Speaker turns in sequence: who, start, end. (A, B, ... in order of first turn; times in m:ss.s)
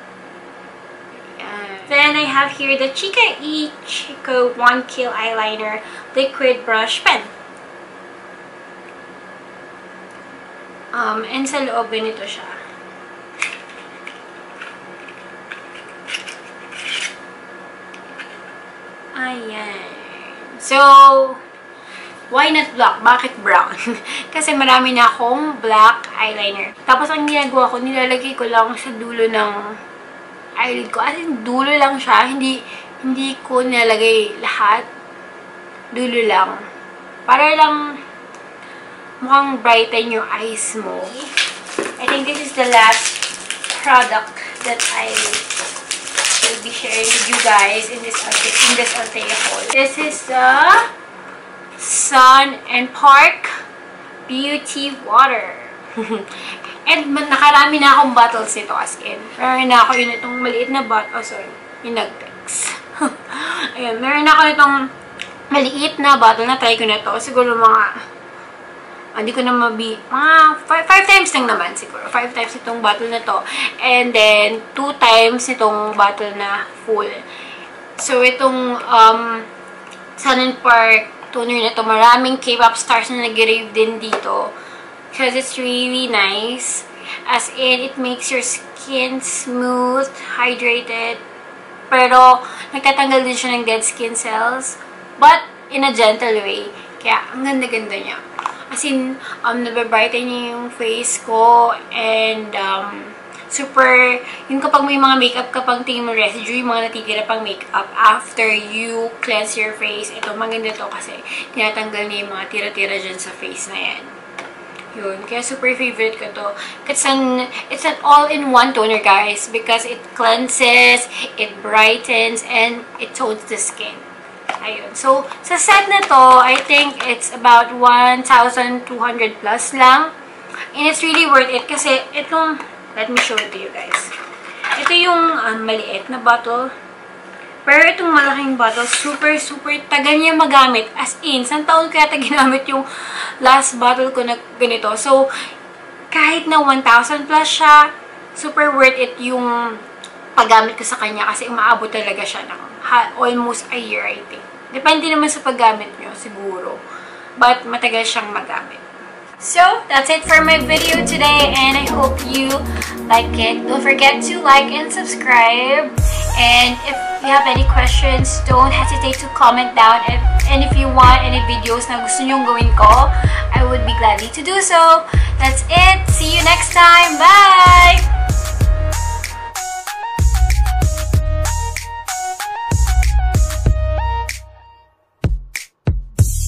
0:01.1-0:07.3 A
0:10.9-0:12.6 A
0:19.2-0:21.4 A
0:22.3-0:29.6 A
0:30.6-0:34.9 A
0:35.9-0:36.6 A
0:37.3-0:37.8 A
0:39.2-0:41.3 A
0:42.0-0:45.5 A
0:46.3-0:50.9 A
0:51.8-0:53.5 A
0:54.3-1:04.9 A
1:05.5-1:07.9 A
1:09.2-1:17.2 A
1:18.0-1:19.5 A
1:20.2-1:24.5 A
1:25.1-1:31.2 A
1:31.9-1:54.1 A
1:54.9-2:04.1 A
2:04.6-2:10.1 A
2:10.7-2:14.1 A
2:14.8-2:16.7 A
2:17.7-2:22.9 A
2:23.4-2:25.3 A
2:26.1-2:29.5 A
2:30.4-2:36.8 A
2:37.4-2:38.8 A
2:39.4-2:58.1 A